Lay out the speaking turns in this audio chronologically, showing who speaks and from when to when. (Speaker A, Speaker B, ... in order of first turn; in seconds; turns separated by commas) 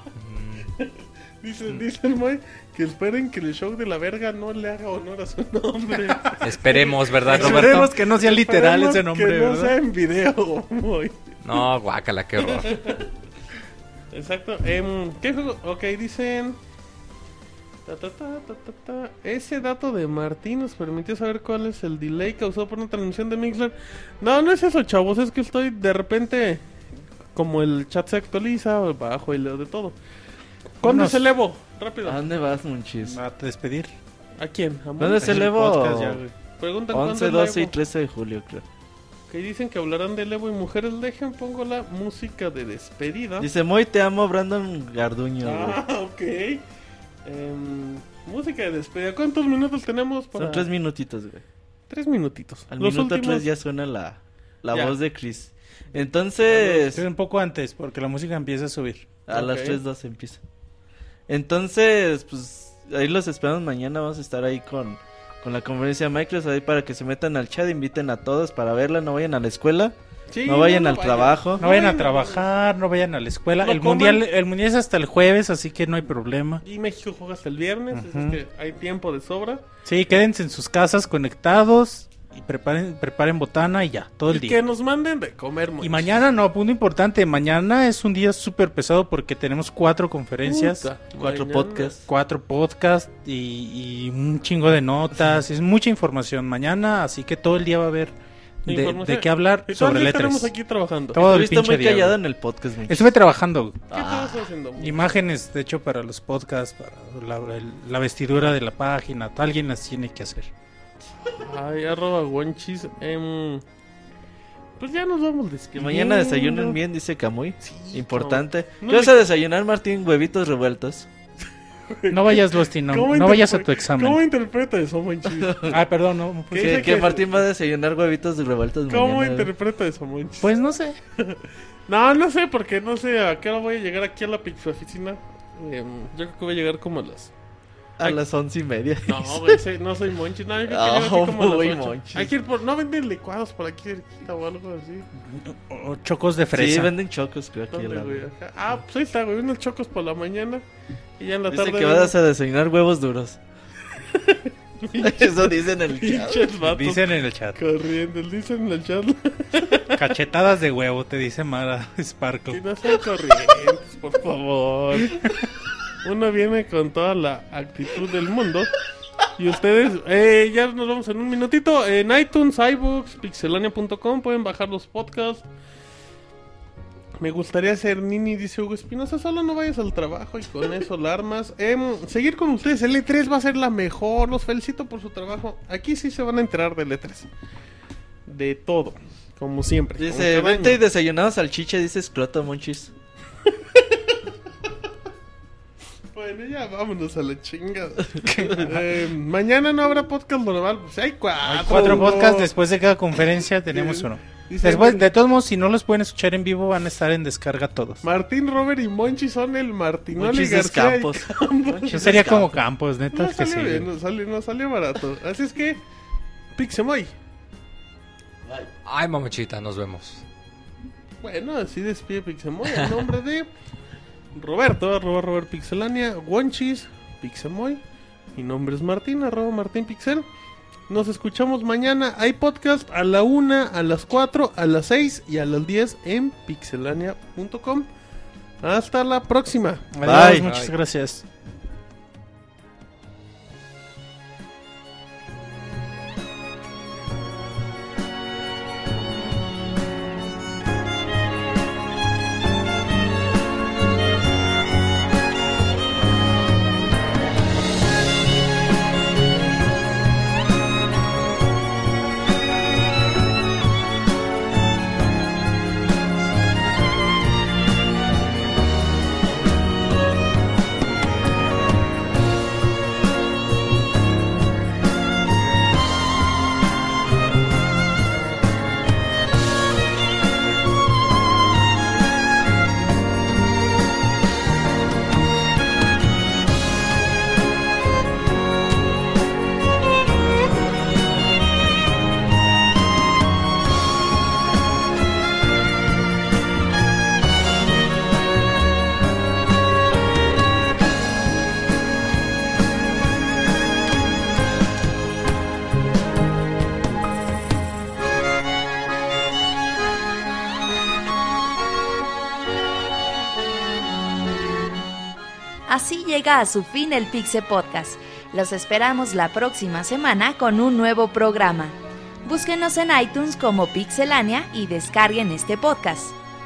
Speaker A: 0.2-0.7, Speaker B: 0.8-11.2, Speaker A: 6.4-7.9, Speaker C: 7.3-9.7, Speaker A: 11.4-12.9, Speaker B: 12.4-13.1, Speaker B: 14.1-16.6, Speaker B: 17.9-26.6, Speaker B: 27.3-29.9, Speaker C: 30.8-31.2, Speaker B: 30.8-32.2, Speaker D: 32.0-33.2, Speaker C: 33.0-33.9, Speaker B: 34.4-35.5, Speaker D: 35.0-36.2, Speaker C: 35.2-36.3, Speaker B: 36.6-37.7, Speaker D: 36.9-38.6, Speaker B: 39.3-43.5, Speaker D: 43.4-45.8, Speaker B: 45.4-46.6, Speaker B: 47.2-50.7, Speaker D: 50.3-51.4, Speaker B: 51.9-53.4, Speaker D: 52.7-57.0, Speaker C: 56.6-59.0, Speaker D: 59.3-60.4, Speaker B: 59.3-59.8, Speaker D: 61.3-71.8, Speaker B: 70.3-72.5, Speaker C: 71.6-76.6, Speaker B: 73.6-74.2, Speaker B: 76.6-79.6, Speaker C: 77.9-78.4, Speaker C: 79.8-84.6, Speaker B: 84.3-86.1, Speaker C: 85.8-90.9, Speaker B: 90.4-91.9, Speaker D: 91.2-92.0, Speaker C: 92.1-98.1, Speaker C: 98.6-100.5, Speaker B: 98.7-101.2, Speaker C: 101.1-102.2, Speaker D: 101.2-103.1, Speaker C: 102.9-103.8, Speaker B: 103.9-105.1, Speaker D: 103.9-104.4, Speaker C: 104.8-110.5, Speaker B: 111.3-113.6, Speaker B: 114.8-116.8, Speaker D: 115.7-121.1, Speaker B: 117.6-119.2, Speaker B: 121.9-125.8, Speaker C: 122.1-124.2, Speaker D: 125.3-125.8, Speaker C: 125.7-127.0, Speaker B: 126.5-127.3, Speaker D: 126.5-129.5, Speaker B: 128.9-130.5, Speaker C: 130.4-131.0, Speaker B: 131.2-137.3, Speaker D: 138.0-139.6, Speaker B: 139.1-145.1, Speaker D: 140.6-142.3, Speaker C: 145.4-146.9, Speaker D: 146.5-148.3, Speaker B: 147.7-150.6, Speaker B: 151.2-152.1, Speaker D: 151.5-153.4, Speaker B: 153.9-160.0, Speaker D: 155.0-156.5, Speaker C: 156.6-157.6, Speaker C: 159.9-162.6, Speaker B: 162.5-165.3, Speaker B: 166.0-168.7, Speaker B: 169.3-175.4, Speaker B: 177.2-187.3, Speaker B: 188.2-190.8, Speaker D: 190.0-192.9, Speaker B: 193.5-194.0, Speaker B: 196.1-202.5, Speaker D: 198.2-198.7, Speaker C: 201.4-208.0, Speaker D: 201.7-202.1, Speaker B: 203.7-205.0, Speaker B: 208.0-212.5, Speaker D: 210.2-212.5, Speaker C: 211.9-213.9, Speaker B: 213.1-215.8, Speaker B: 216.5-217.1, Speaker A: 218.8-220.2, Speaker B: 221.2-223.5, Speaker B: 224.3-227.8, Speaker B: 228.3-230.2, Speaker B: 230.9-237.9, Speaker B: 238.6-239.9, Speaker C: 239.9-241.2, Speaker D: 240.0-240.5, Speaker A: 240.4-240.7, Speaker E: 315.7-326.1